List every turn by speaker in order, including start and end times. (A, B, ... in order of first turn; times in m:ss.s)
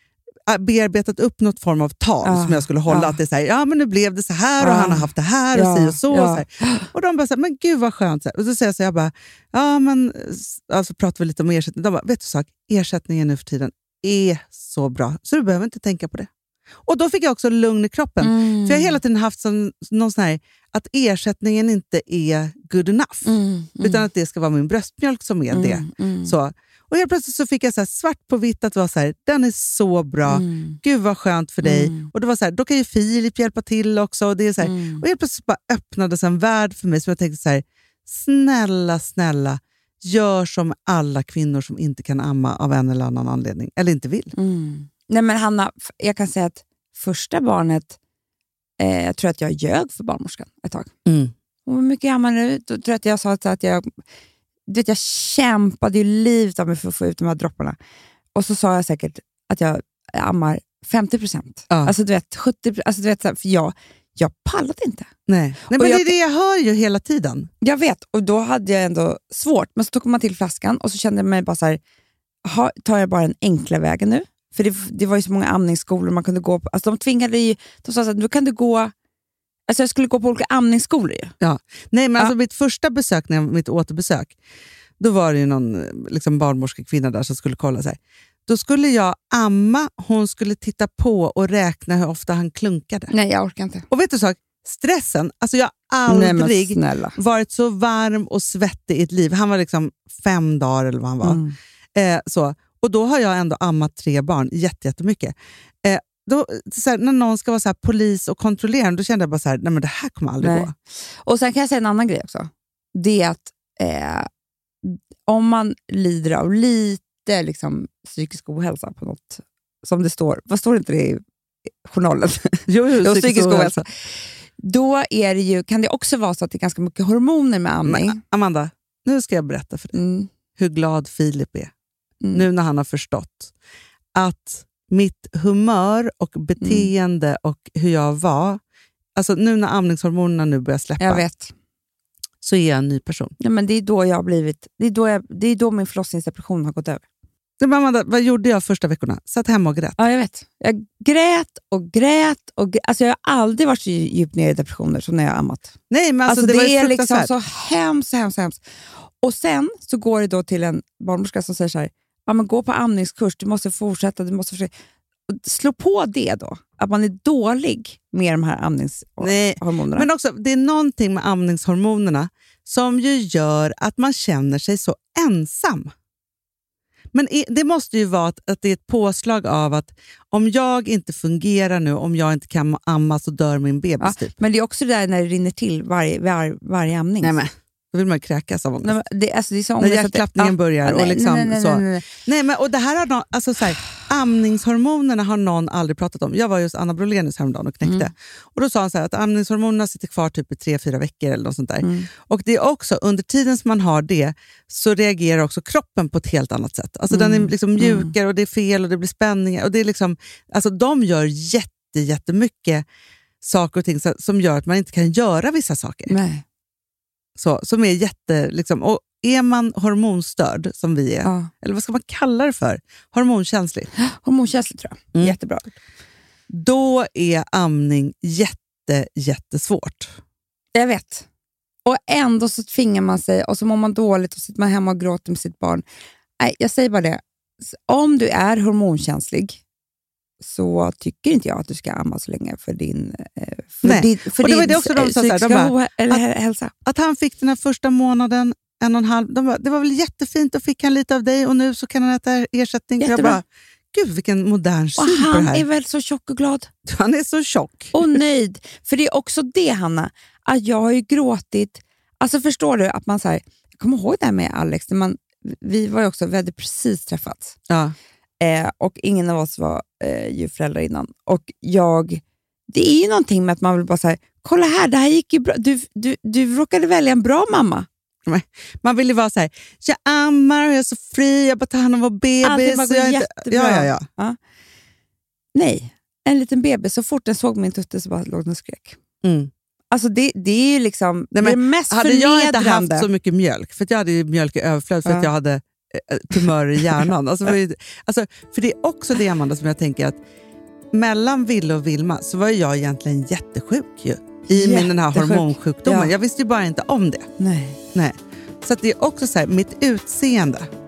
0:00.4-0:16.3 A
0:02.2-0:03.2 B
0:04.6-0:06.9 B
0:16.8-0:44.3 A
0:18.2-0:19.0 B
0:23.2-0:24.0 B
0:25.5-0:26.3 B
0:30.2-0:30.8 B
0:31.6-0:32.1 B
0:34.6-0:35.0 B
0:44.4-0:48.0 B
0:48.8-0:50.9 B
0:51.0-0:51.3 A
0:51.6-0:53.9 B
0:54.7-0:57.8 B
0:58.3-1:05.1 B
1:05.3-1:07.5 A
1:05.7-1:06.1 B
1:07.6-1:11.8 B
1:12.4-1:18.9 B
1:19.7-1:21.3 B
1:21.4-1:24.3 A
1:25.0-1:33.1 A
1:33.1-1:33.8 B
1:33.9-1:41.4 A
1:36.1-1:37.2 B
1:41.2-1:41.6 B
1:41.9-1:50.7 A
1:50.4-1:54.3 B
1:54.8-2:01.2 B
2:01.8-2:03.9 B
2:02.7-2:03.8 A
2:04.6-2:08.2 B
2:07.8-2:10.0 A
2:09.9-2:10.3 B
2:10.6-2:11.7 A
2:12.3-2:13.5 A
2:14.1-2:18.6 A
2:16.6-2:16.9 B
2:19.2-2:21.2 A
2:21.0-2:21.5 B
2:22.4-2:23.3 A
2:23.4-2:27.0 B
2:27.6-2:30.0 A
2:30.0-2:35.7 B
2:35.9-2:37.3 A
2:36.3-2:38.6 B
2:39.2-2:44.7 B
2:45.3-2:50.1 B
2:49.2-2:55.9 A
2:57.1-3:04.4 A
3:04.0-3:07.4 B
3:07.2-3:09.0 A
3:08.8-3:12.1 B
3:09.8-3:32.8 A
3:17.8-3:18.1 B
3:21.8-3:22.1 B
3:27.1-3:28.1 B
3:33.4-3:36.1 A
3:36.1-3:36.4 B
3:37.4-3:43.9 A
3:41.2-3:41.5 B
3:44.0-3:45.7 B
3:46.5-3:50.1 A
3:50.7-3:51.2 B
3:51.8-3:55.8 B
3:56.4-3:59.6 B
4:00.4-4:06.7 B
4:03.8-4:06.2 A
4:06.8-4:15.6 A
4:13.0-4:13.4 B
4:15.0-4:16.7 B
4:16.9-4:18.2 A
4:17.9-4:27.6 B
4:27.7-4:27.9 A
4:28.4-4:37.9 B
4:38.2-4:44.1 A
4:42.4-4:44.4 B
4:45.5-4:49.0 B
4:49.2-4:49.5 A
4:49.9-4:53.1 B
4:51.3-5:00.2 A
4:55.0-4:55.3 B
5:00.9-5:07.3 A
5:04.5-5:06.1 B
5:07.4-5:07.8 B
5:07.9-5:10.7 A